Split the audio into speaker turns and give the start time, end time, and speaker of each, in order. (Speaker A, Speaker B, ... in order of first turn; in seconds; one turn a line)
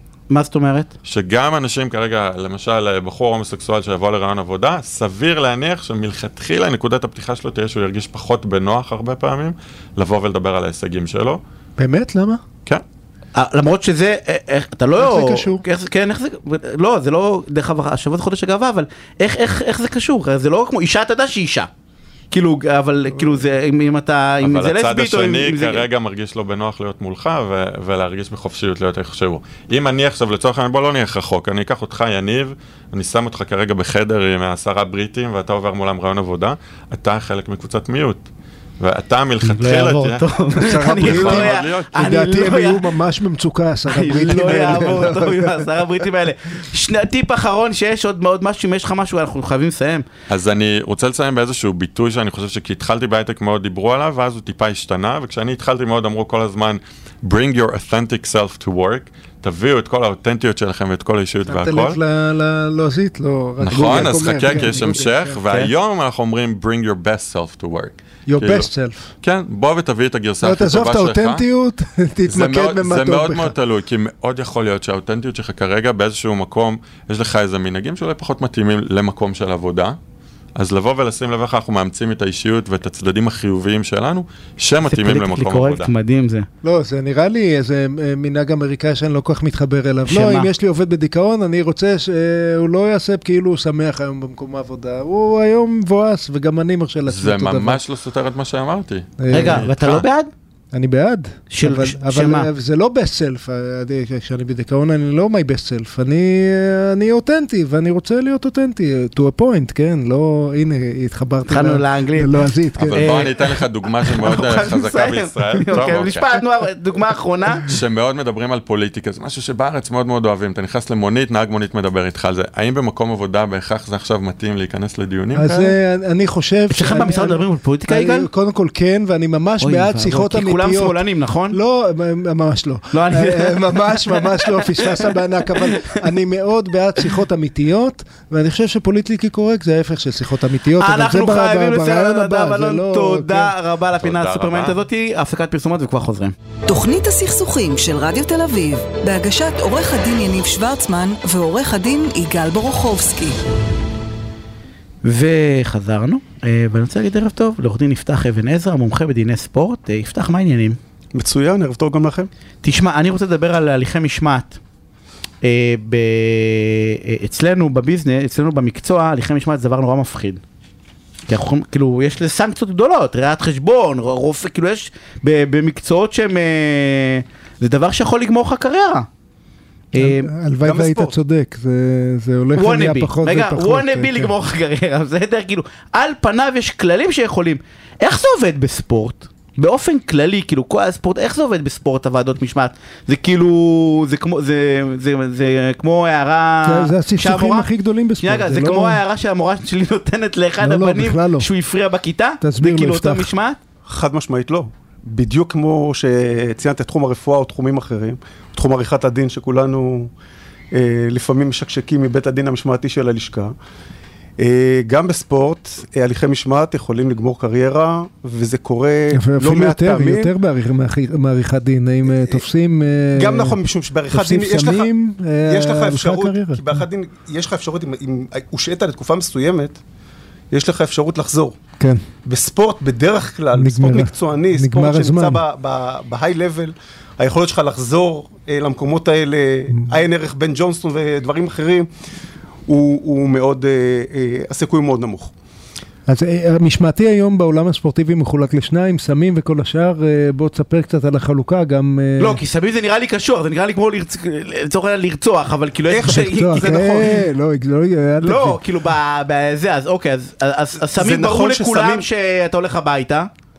Speaker A: 0.3-0.9
Speaker B: 1.0-11.4
Speaker C: 11.8-12.4
Speaker A: 13.3-21.7
Speaker C: 15.0-15.6
Speaker A: 22.3-25.9
Speaker B: 24.4-38.2
Speaker B: 38.8-42.2
Speaker A: 39.4-42.9
Speaker C: 40.6-45.9
Speaker A: 43.9-50.0
Speaker B: 50.3-62.0
Speaker C: 61.5-65.4
Speaker B: 63.6-68.7
Speaker A: 63.7-64.8
Speaker C: 68.3-69.1
Speaker B: 69.2-71.4
Speaker C: 70.4-73.5
Speaker B: 72.3-80.0
Speaker B: 80.5-85.9
Speaker A: 84.8-86.5
Speaker C: 86.6-97.8
Speaker A: 90.1-90.5
Speaker B: 97.0-100.0
Speaker C: 99.2-99.7
Speaker A: 99.3-100.3
Speaker C: 100.7-113.1
Speaker A: 101.5-102.5
Speaker A: 111.5-112.4
Speaker B: 112.8-116.2
Speaker A: 112.9-117.7
Speaker B: 117.7-125.7
Speaker C: 125.3-143.5
Speaker A: 126.7-128.3
Speaker A: 129.6-131.6
Speaker A: 132.9-136.0
Speaker A: 140.8-146.3
Speaker B: 144.0-144.8
Speaker D: 146.7-153.4
Speaker A: 155.0-160.8
Speaker E: 161.1-162.3
Speaker A: 162.6-164.6
Speaker A: 165.4-170.4
Speaker A: 171.3-179.1
Speaker A: 179.9-180.3
Speaker C: 179.9-184.3
Speaker E: 180.6-181.2
Speaker A: 182.5-203.6
Speaker C: 196.6-199.0
Speaker C: 200.6-201.5
Speaker C: 202.4-203.3
Speaker E: 203.8-210.1
Speaker E: 210.7-213.5
Speaker E: 214.4-220.3
Speaker C: 219.1-223.6
Speaker E: 222.1-222.4
Speaker E: 223.1-224.9
Speaker C: 224.1-226.8
Speaker E: 225.4-229.8
Speaker E: 230.5-231.6
Speaker E: 232.2-241.9
Speaker C: 233.5-235.4
Speaker C: 239.7-240.0
Speaker E: 242.7-245.3
Speaker C: 246.1-252.4
Speaker A: 252.2-257.0
Speaker E: 255.9-257.1
Speaker C: 256.1-258.6
Speaker A: 258.2-263.3
Speaker E: 260.8-262.1